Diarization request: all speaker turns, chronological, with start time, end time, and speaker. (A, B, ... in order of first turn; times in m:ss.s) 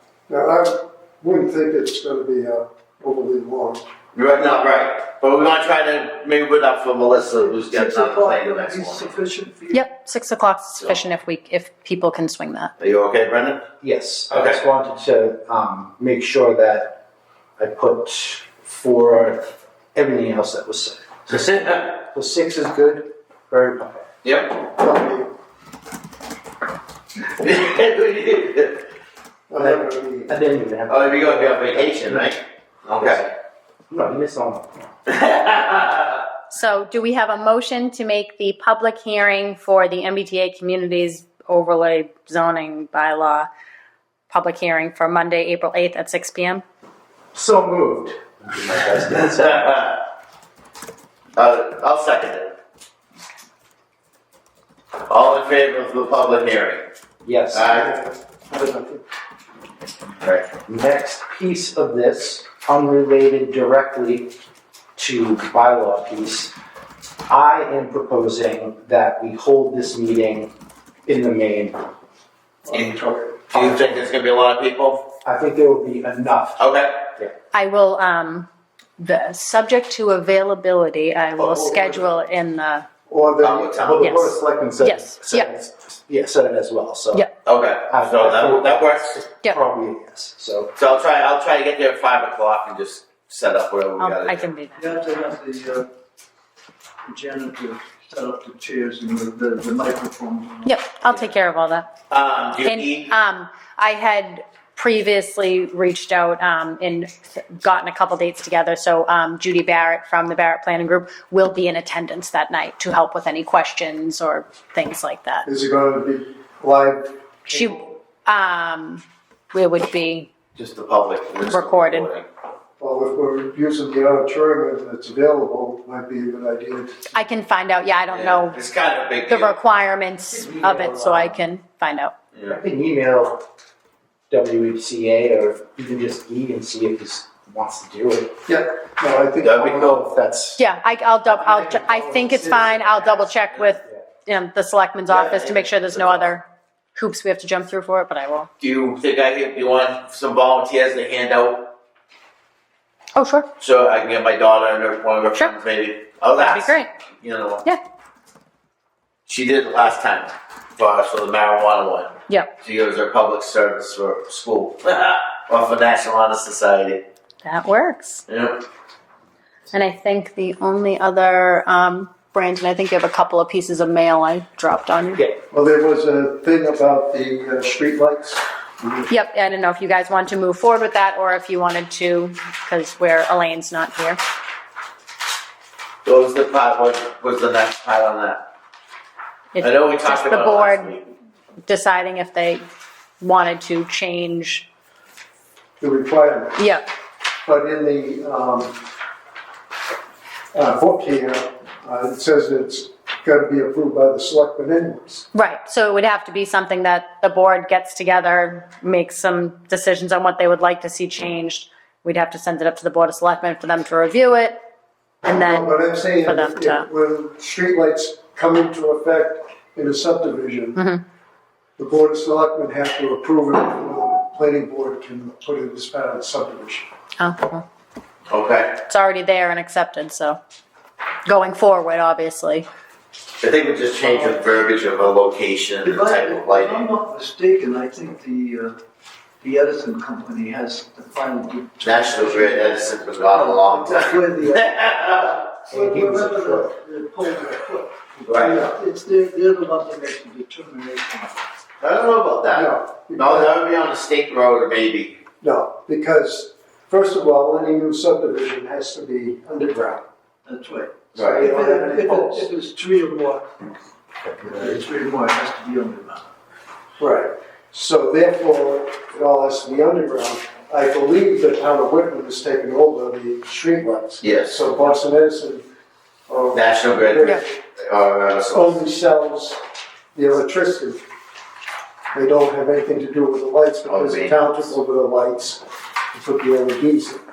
0:00.3-0:03.8 A
0:04.1-0:09.1 B
0:07.1-0:09.9 C
0:09.7-0:12.7 D
0:12.8-0:13.6 B
0:13.8-0:17.0 E
0:14.3-0:14.6 B
0:17.6-0:24.0 E
0:21.3-0:21.9 B
0:24.2-0:24.6 B
0:24.7-0:25.3 A
0:27.4-0:28.8 B
0:29.5-0:30.3 A
0:29.6-0:32.3 E
0:30.9-0:33.3 B
0:32.9-0:33.3 E
0:33.9-0:34.9 E
0:35.1-0:36.2 B
0:36.5-0:43.5 D
0:44.3-0:46.6 D
0:47.3-0:49.7 E
0:49.1-0:50.0 B
0:51.3-0:52.5 B
0:55.1-0:56.8 B
0:57.2-0:57.7 E
0:57.5-0:57.9 B
0:57.5-0:59.0 A
1:00.5-1:04.3 E
1:05.0-1:06.5 E
1:07.3-1:10.5 E
1:11.0-1:11.8 E
1:12.6-1:13.6 A
1:13.5-1:15.1 B
1:15.2-1:16.6 E
1:16.6-1:17.1 B
1:17.5-1:22.8 D
1:21.4-1:22.1 A
1:23.1-1:24.4 A
1:23.4-1:24.0 B
1:23.9-1:27.3 E
1:24.0-1:25.5 D
1:27.4-1:29.2 B
1:27.9-1:30.7 E
1:30.8-1:34.5 B
1:34.0-1:34.9 D
1:34.8-1:35.9 C
1:37.0-1:40.8 C
1:40.6-1:41.9 D
1:41.0-1:41.3 B
1:42.1-1:43.1 B
1:42.6-1:55.5 D
1:55.4-1:57.9 A
1:57.5-2:00.3 D
2:00.6-2:02.2 B
2:01.4-2:02.1 D
2:02.8-2:07.1 A
2:07.1-2:08.6 D
2:08.1-2:09.6 B
2:09.2-2:12.1 D
2:10.3-2:11.4 E
2:12.4-2:13.4 E
2:14.3-2:18.4 E
2:18.5-2:20.1 A
2:19.4-2:20.0 B
2:19.6-2:20.6 E
2:20.6-2:28.5 D
2:21.4-2:23.2 A
2:25.1-2:26.3 B
2:28.6-2:31.7 B
2:33.1-2:33.5 D
2:33.6-2:37.6 B
2:36.3-2:36.9 D
2:39.3-2:47.0 B
2:42.3-2:42.5 D
2:47.4-2:48.2 D
2:48.3-2:48.6 B
2:49.7-2:55.2 D
2:55.5-2:59.1 A
2:59.1-3:04.2 D
3:06.0-3:08.5 B
3:09.5-3:11.0 D
3:09.6-3:11.0 B
3:11.6-3:12.6 D
3:13.2-3:14.7 D
3:15.8-3:16.6 A
3:16.6-3:16.8 D
3:17.4-3:18.8 A
3:20.5-3:25.3 A
3:25.3-3:34.6 D
3:35.2-3:36.9 D
3:35.3-3:40.8 A
3:40.8-3:41.0 D
3:41.8-3:46.9 A
3:47.2-3:47.6 D
3:48.3-3:48.8 B
3:48.9-3:50.4 D
3:51.2-3:52.7 D
3:53.4-3:56.9 B
3:54.0-3:54.5 C
3:55.8-3:58.8 C
3:59.4-4:11.4 C
4:01.8-4:05.5 B
4:05.7-4:06.7 E
4:08.3-4:08.6 B
4:08.4-4:08.7 A
4:11.8-4:15.2 B
4:12.5-4:13.6 A
4:15.4-4:20.0 A
4:20.4-4:23.5 C
4:21.1-4:21.5 B
4:21.2-4:22.5 A
4:24.4-4:26.3 C
4:27.0-4:35.6 A
4:34.2-4:34.6 B
4:36.3-4:37.5 A
4:36.5-4:38.8 B
4:38.5-4:39.6 A
4:40.1-4:41.0 A
4:42.1-4:47.2 A
4:43.8-4:44.7 B